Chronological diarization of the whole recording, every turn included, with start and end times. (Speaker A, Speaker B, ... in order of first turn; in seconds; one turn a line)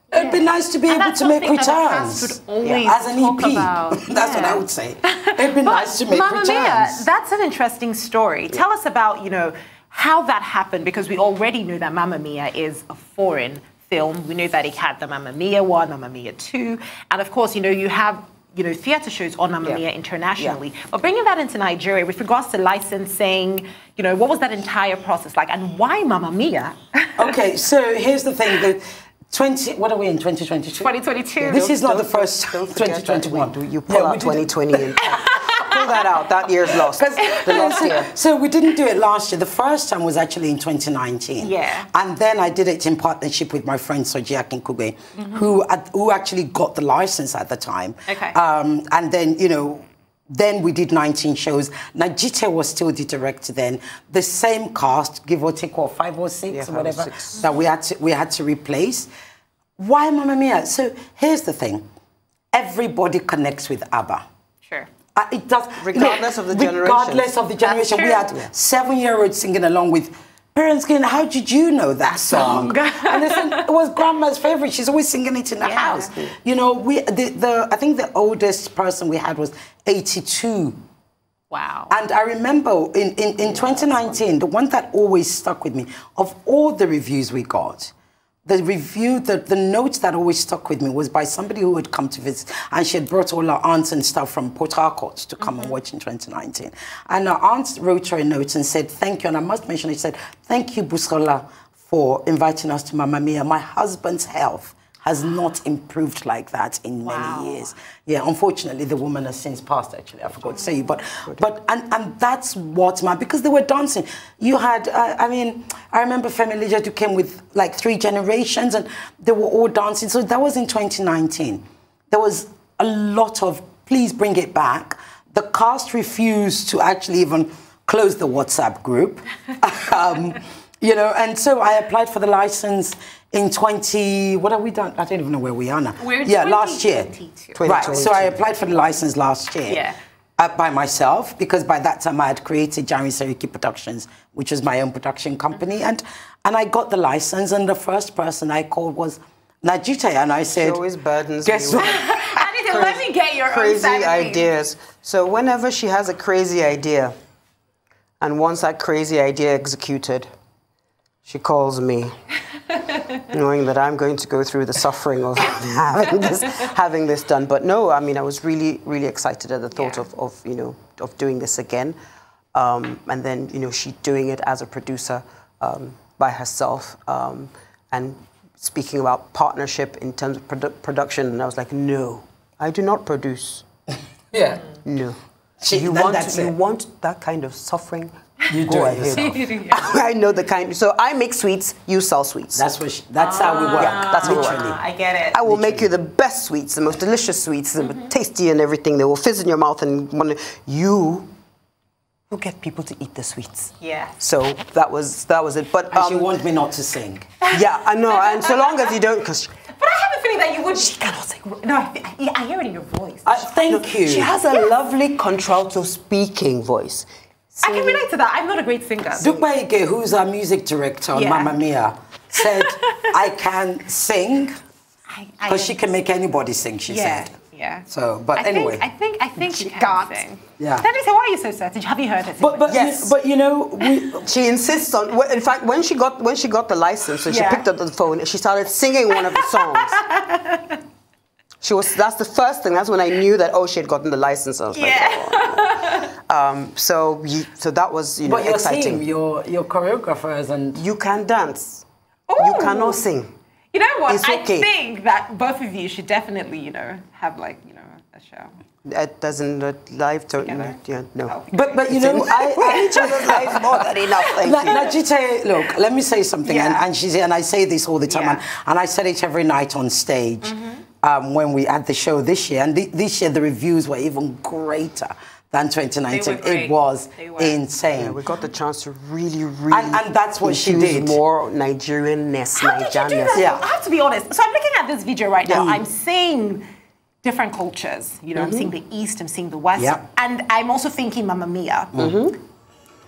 Speaker A: 0.1-7.0
Speaker B: 0.1-27.3
Speaker A: 27.2-30.9
Speaker B: 30.8-31.7
Speaker C: 31.4-38.1
Speaker A: 31.5-35.3
Speaker B: 35.0-36.0
Speaker A: 36.8-59.1
Speaker B: 37.2-37.9
Speaker B: 41.4-41.9
Speaker B: 45.2-45.5
Speaker B: 48.1-48.4
Speaker C: 56.5-57.4
Speaker A: 59.8-61.8
Speaker A: 62.5-64.2
Speaker A: 65.1-80.8
Speaker C: 65.8-67.3
Speaker B: 67.6-68.3
Speaker B: 72.1-73.7
Speaker B: 75.6-76.1
Speaker C: 76.1-76.3
Speaker B: 81.5-81.9
Speaker A: 81.9-87.9
Speaker C: 83.5-84.2
Speaker A: 88.5-137.1
Speaker B: 95.4-95.8
Speaker B: 107.0-107.7
Speaker B: 136.0-138.0
Speaker C: 137.5-138.4
Speaker A: 137.6-139.8
Speaker B: 139.7-140.0
Speaker A: 140.4-150.8
Speaker C: 150.5-152.0
Speaker A: 151.4-152.4
Speaker B: 151.7-154.5
Speaker C: 152.7-157.1
Speaker C: 158.2-160.3
Speaker C: 161.2-162.1
Speaker C: 163.2-172.0
Speaker B: 169.7-170.0
Speaker C: 172.5-183.6
Speaker A: 184.3-184.6
Speaker C: 184.8-185.2
Speaker A: 185.6-186.5
Speaker C: 185.7-192.6
Speaker A: 188.5-189.5
Speaker B: 189.2-189.9
Speaker A: 192.5-194.8
Speaker B: 193.2-195.4
Speaker C: 193.6-194.7
Speaker C: 195.3-201.3
Speaker A: 195.4-195.9
Speaker B: 197.8-198.1
Speaker C: 202.3-206.3
Speaker B: 203.8-204.2
Speaker A: 205.9-207.3
Speaker B: 207.4-208.8
Speaker C: 207.5-209.5
Speaker B: 209.7-213.6
Speaker A: 213.2-214.3
Speaker C: 213.7-218.0
Speaker B: 217.6-219.4
Speaker A: 219.2-224.6
Speaker B: 221.1-221.6
Speaker B: 222.3-223.1
Speaker B: 225.1-225.8
Speaker A: 225.5-227.3
Speaker B: 226.9-232.8
Speaker A: 227.9-228.8
Speaker C: 229.4-230.2
Speaker A: 230.6-230.8
Speaker A: 232.4-234.3
Speaker C: 232.7-233.1
Speaker C: 234.2-239.9
Speaker B: 237.2-237.7
Speaker B: 239.3-240.8
Speaker C: 241.6-249.0
Speaker B: 244.7-246.1
Speaker A: 248.2-250.8
Speaker C: 250.7-251.8
Speaker B: 252.3-253.1
Speaker C: 252.4-253.3
Speaker B: 253.7-258.5
Speaker C: 254.1-254.7
Speaker C: 258.8-261.4
Speaker B: 260.4-261.9
Speaker A: 261.5-278.2
Speaker C: 261.9-264.9
Speaker B: 262.5-263.0
Speaker B: 264.7-265.0
Speaker B: 266.4-266.8
Speaker B: 268.1-268.4
Speaker B: 270.4-270.8
Speaker B: 276.1-277.6
Speaker C: 277.9-283.4
Speaker A: 279.7-281.2
Speaker B: 282.6-286.6
Speaker A: 283.3-283.6
Speaker C: 285.4-285.8
Speaker B: 287.2-291.9
Speaker C: 288.3-288.7
Speaker A: 289.8-290.0
Speaker C: 291.9-292.4